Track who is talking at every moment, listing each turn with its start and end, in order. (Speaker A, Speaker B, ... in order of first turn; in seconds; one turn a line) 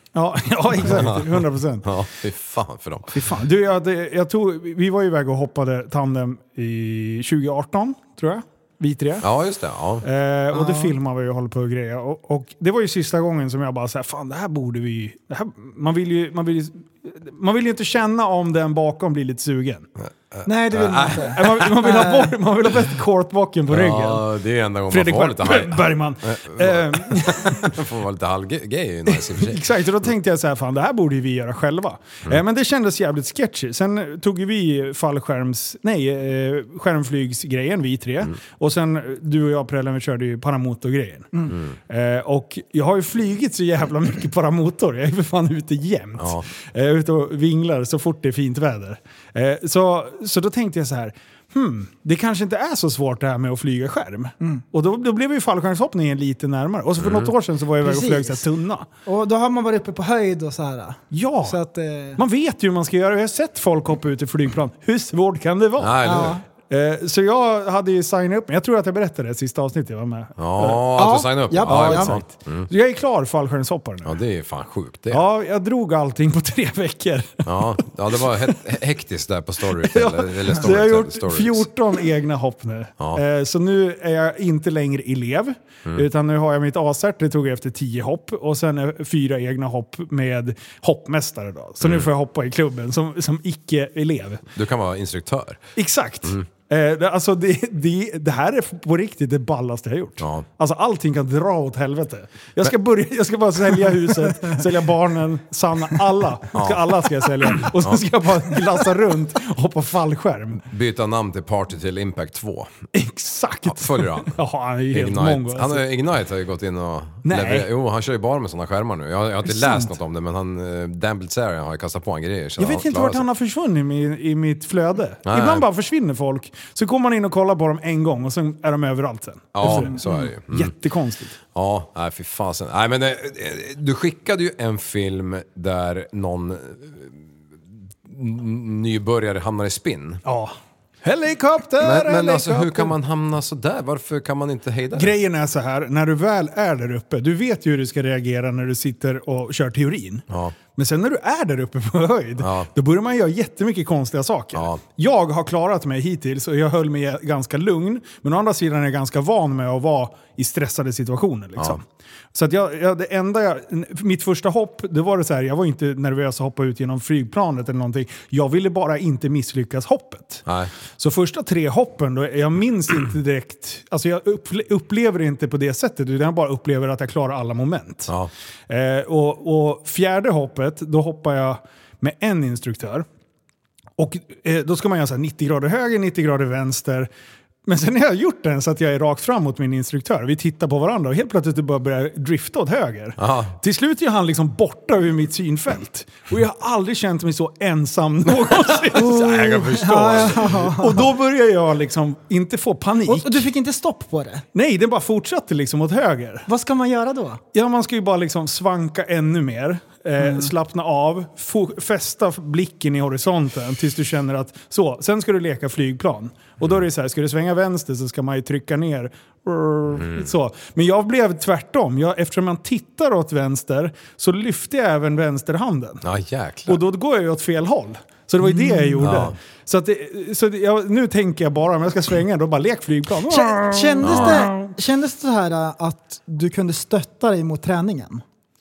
Speaker A: 0.1-1.9
Speaker B: 0.8-3.2
Speaker A: 3.1-9.3
Speaker B: 9.2-10.0
Speaker A: 10.0-19.9
Speaker C: 10.5-10.9
Speaker B: 20.0-21.7
Speaker C: 20.4-22.3
Speaker A: 21.2-24.3
Speaker B: 23.7-29.7
Speaker A: 24.9-27.8
Speaker A: 29.1-58.9
Speaker B: 46.2-46.4
Speaker B: 57.0-57.3
Speaker C: 57.8-58.4
Speaker C: 59.0-62.2
Speaker A: 61.1-61.6
Speaker A: 62.2-70.9
Speaker B: 65.8-66.3
Speaker C: 66.0-66.4
Speaker B: 70.4-72.7
Speaker C: 70.9-72.2
Speaker A: 71.7-74.1
Speaker B: 74.0-75.2
Speaker A: 75.1-78.5
Speaker B: 77.4-81.7
Speaker A: 79.7-94.4
Speaker B: 91.8-92.1
Speaker B: 94.5-95.6
Speaker A: 95.8-110.6
Speaker B: 100.2-100.5
Speaker B: 106.5-106.9
Speaker B: 107.6-108.0
Speaker B: 110.7-112.7
Speaker A: 112.9-115.8
Speaker B: 113.7-114.4
Speaker B: 114.9-123.2
Speaker A: 117.2-117.7
Speaker A: 119.5-119.9
Speaker A: 122.6-131.4
Speaker B: 125.2-125.6
Speaker B: 129.5-130.7
Speaker B: 131.5-137.2
Speaker B: 138.0-140.2
Speaker A: 140.2-142.9
Speaker B: 141.8-145.2
Speaker A: 144.9-150.2
Speaker B: 150.3-150.5
Speaker A: 150.8-161.8
Speaker B: 152.4-152.7
Speaker B: 154.5-154.8
Speaker A: 162.3-170.4
Speaker A: 171.0-178.1
Speaker A: 178.7-183.1
Speaker A: 184.0-187.1
Speaker A: 187.7-203.5
Speaker B: 193.2-193.5
Speaker B: 198.7-200.5
Speaker C: 198.9-201.1
Speaker C: 203.1-204.4
Speaker A: 204.5-206.5
Speaker C: 206.5-207.4
Speaker A: 207.5-226.0
Speaker C: 210.2-210.5
Speaker B: 219.9-220.3
Speaker B: 226.0-226.8
Speaker A: 226.7-234.7
Speaker C: 228.4-229.1
Speaker B: 229.0-229.3
Speaker C: 233.3-238.2
Speaker B: 234.0-234.5